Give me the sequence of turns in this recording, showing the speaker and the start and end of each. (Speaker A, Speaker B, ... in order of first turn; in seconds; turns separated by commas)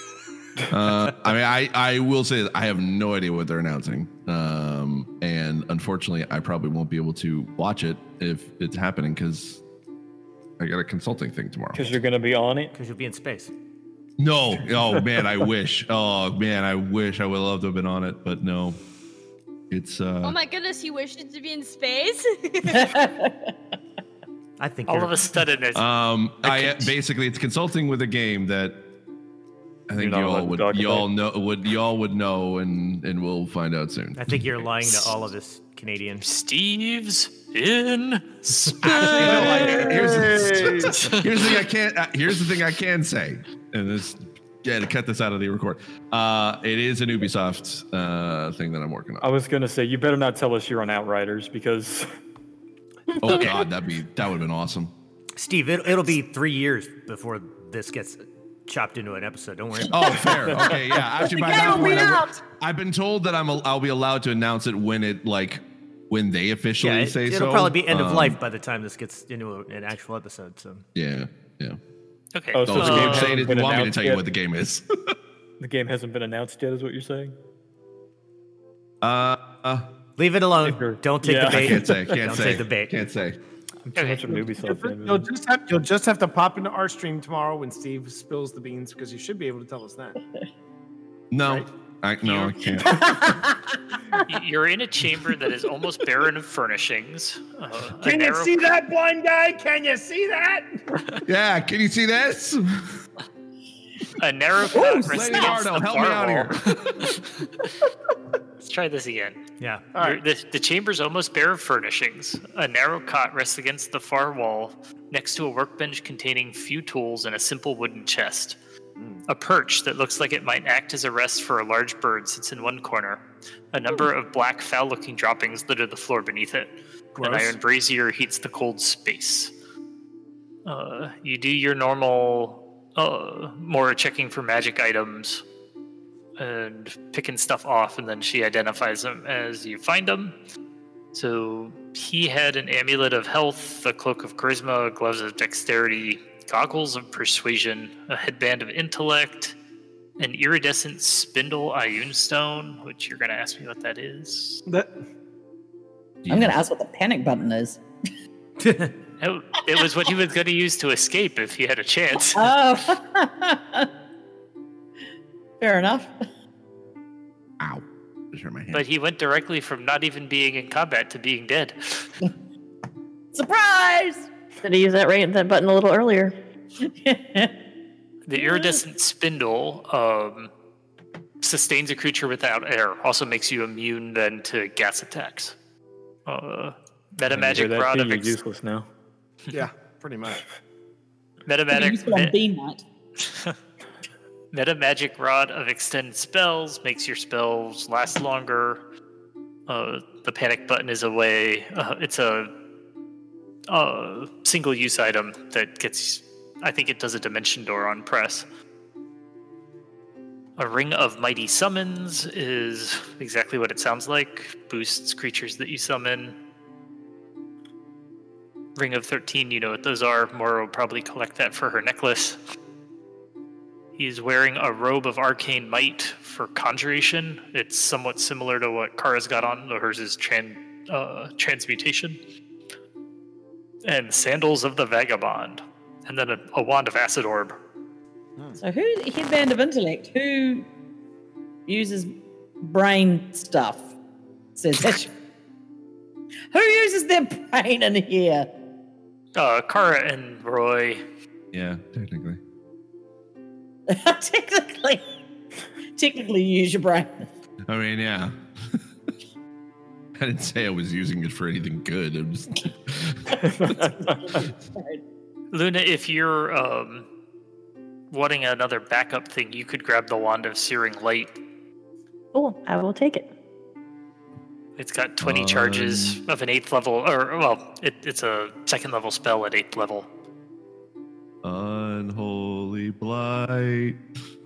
Speaker A: 0.7-9.6, Speaker A: 10.6-11.8, Speaker B: 11.7-12.7, Speaker C: 12.7-13.5, Speaker A: 14.2-18.8, Speaker A: 19.7-20.4, Speaker D: 20.2-23.0, Speaker E: 22.7-23.5, Speaker C: 24.6-25.4, Speaker F: 24.9-25.8, Speaker A: 25.7-28.8, Speaker F: 26.4-26.8, Speaker A: 29.9-34.3, Speaker B: 29.9-31.1, Speaker C: 34.2-36.2, Speaker F: 36.2-40.1, Speaker A: 38.8-49.3, Speaker G: 39.1-41.1, Speaker F: 40.8-41.2, Speaker B: 49.2-52.1, Speaker A: 53.2-54.9, Speaker H: 53.2-53.5, Speaker C: 55.4-60.7, Speaker A: 59.9-68.4, Speaker E: 61.4-62.3, Speaker G: 61.5-62.4, Speaker C: 66.8-70.8, Speaker A: 71.0-71.8, Speaker F: 72.3-73.4, Speaker B: 72.5-74.2, Speaker A: 72.6-74.8, Speaker B: 75.6-77.3, Speaker A: 79.0-79.9, Speaker C: 80.2-83.0, Speaker B: 80.6-82.5, Speaker A: 81.5-83.4, Speaker B: 83.8-85.3, Speaker F: 83.9-84.2, Speaker G: 84.3-90.2, Speaker A: 91.3-93.1, Speaker F: 92.2-92.6, Speaker E: 92.8-93.6, Speaker F: 94.3-98.6, Speaker G: 98.0-100.7, Speaker A: 101.2-103.0, Speaker F: 104.2-107.7, Speaker A: 104.7-107.2, Speaker F: 108.6-109.4, Speaker C: 109.6-109.8, Speaker G: 109.9-110.2, Speaker F: 110.0-118.6, Speaker G: 119.0-119.2, Speaker F: 119.3-129.5, Speaker G: 127.1-127.6, Speaker F: 130.6-135.4, Speaker F: 136.4-140.3, Speaker F: 141.1-149.6, Speaker F: 150.2-154.6, Speaker G: 154.7-154.9, Speaker A: 156.2-156.6, Speaker E: 156.3-157.8, Speaker C: 158.6-158.9, Speaker F: 159.2-162.5, Speaker E: 162.3-163.9, Speaker E: 165.6-166.1, Speaker A: 167.6-168.8, Speaker F: 168.7-172.1, Speaker E: 173.3-174.3, Speaker H: 174.6-176.3, Speaker E: 176.8-177.5, Speaker F: 178.2-180.5, Speaker E: 178.4-178.8, Speaker F: 181.4-185.6, Speaker F: 186.2-188.4, Speaker B: 187.3-188.9, Speaker G: 189.5-190.4, Speaker F: 191.4-192.3, Speaker E: 191.7-192.8, Speaker F: 193.2-193.5, Speaker F: 194.5-198.8, Speaker F: 199.7-202.5, Speaker F: 203.7-208.4, Speaker F: 210.6-216.3, Speaker F: 218.8-222.4, Speaker F: 223.9-232.2, Speaker F: 233.8-237.6, Speaker E: 238.6-240.7, Speaker E: 241.7-243.9, Speaker E: 244.6-245.1, Speaker E: 246.5-248.5, Speaker F: 249.3-251.0, Speaker A: 251.5-252.4, Speaker E: 253.9-255.0, Speaker E: 255.9-257.2, Speaker A: 257.7-258.8, Speaker A: 260.2-263.7, Speaker B: 263.4-264.4, Speaker E: 264.3-265.0, Speaker F: 265.5-267.1, Speaker F: 268.1-271.4, Speaker H: 272.3-273.3, Speaker F: 274.8-280.1, Speaker A: 275.2-276.2, Speaker A: 281.4-284.0